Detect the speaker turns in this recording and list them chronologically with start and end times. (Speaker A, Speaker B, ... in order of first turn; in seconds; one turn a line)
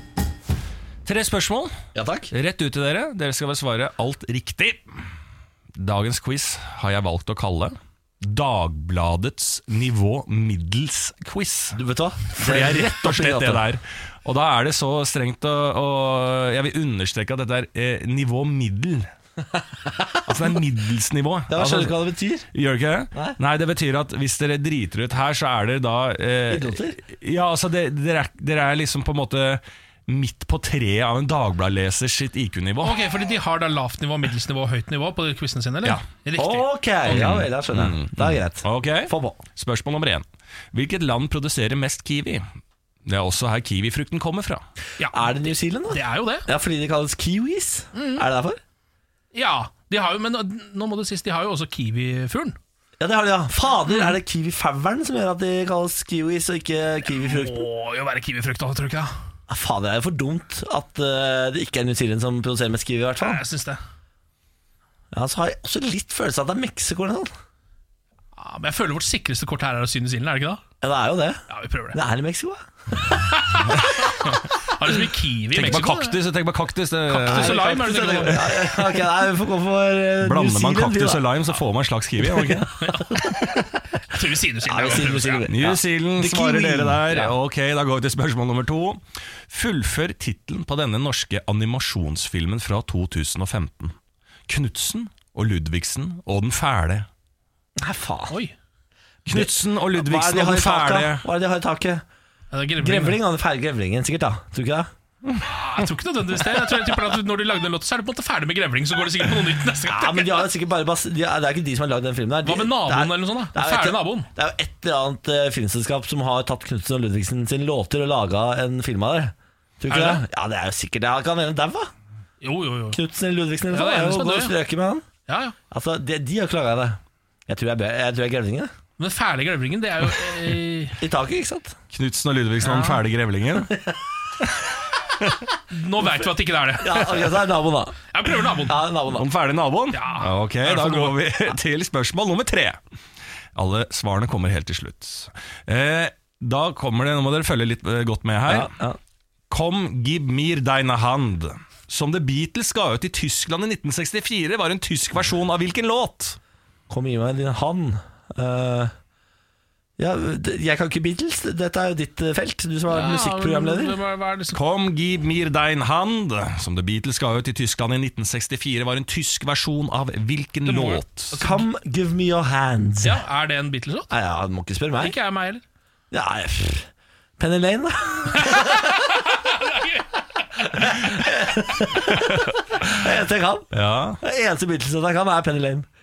Speaker A: 1.1-1.7
Speaker B: 1.9-2.3
Speaker A: 2.3-4.9
Speaker A: 5.8-11.8
Speaker B: 11.7-13.6
Speaker A: 12.3-19.1
Speaker A: 20.2-22.0
Speaker B: 21.5-22.5
Speaker A: 22.5-33.0
Speaker B: 26.5-27.0
Speaker C: 32.8-37.4
Speaker B: 36.4-39.4
Speaker A: 37.1-42.5
Speaker A: 43.1-44.6
Speaker C: 45.0-46.5
Speaker B: 45.1-48.6
Speaker C: 47.9-48.2
Speaker C: 49.3-52.6
Speaker B: 53.0-57.7
Speaker C: 53.9-54.1
Speaker C: 57.1-59.1
Speaker B: 59.5-63.4
Speaker C: 63.2-63.8
Speaker B: 65.1-67.3
Speaker C: 68.4-70.6
Speaker B: 70.8-73.2
Speaker C: 71.5-72.0
Speaker C: 73.2-76.2
Speaker A: 75.5-77.7
Speaker C: 77.1-78.7
Speaker B: 77.3-81.3
Speaker A: 80.2-82.9
Speaker B: 82.2-83.6
Speaker C: 82.8-83.6
Speaker C: 84.1-85.5
Speaker B: 84.6-87.1
Speaker A: 85.5-94.0
Speaker A: 94.5-97.1
Speaker B: 97.8-98.4
Speaker C: 98.3-98.5
Speaker A: 99.3-101.2
Speaker B: 99.3-102.0
Speaker C: 102.5-103.2
Speaker B: 102.8-104.9
Speaker C: 105.5-110.5
Speaker B: 109.9-121.9
Speaker C: 112.5-114.3
Speaker C: 119.9-120.2
Speaker C: 122.4-123.0
Speaker B: 122.9-125.0
Speaker C: 123.7-124.5
Speaker C: 125.3-125.6
Speaker B: 125.7-128.7
Speaker C: 129.0-131.0
Speaker B: 131.0-131.8
Speaker A: 131.9-133.7
Speaker C: 132.6-133.0
Speaker C: 135.7-137.4
Speaker B: 136.8-138.0
Speaker C: 138.1-138.8
Speaker B: 138.6-139.3
Speaker A: 139.1-142.8
Speaker C: 139.9-141.2
Speaker A: 143.6-148.7
Speaker B: 148.5-149.0
Speaker A: 149.5-156.4
Speaker B: 156.9-158.9
Speaker B: 160.0-164.0
Speaker C: 162.9-164.6
Speaker A: 164.5-171.3
Speaker C: 170.7-171.6
Speaker B: 171.4-173.2
Speaker C: 173.0-174.1
Speaker B: 174.1-175.2
Speaker C: 175.0-175.6
Speaker B: 176.1-179.0
Speaker C: 178.3-180.1
Speaker B: 180.6-185.9
Speaker A: 183.7-184.2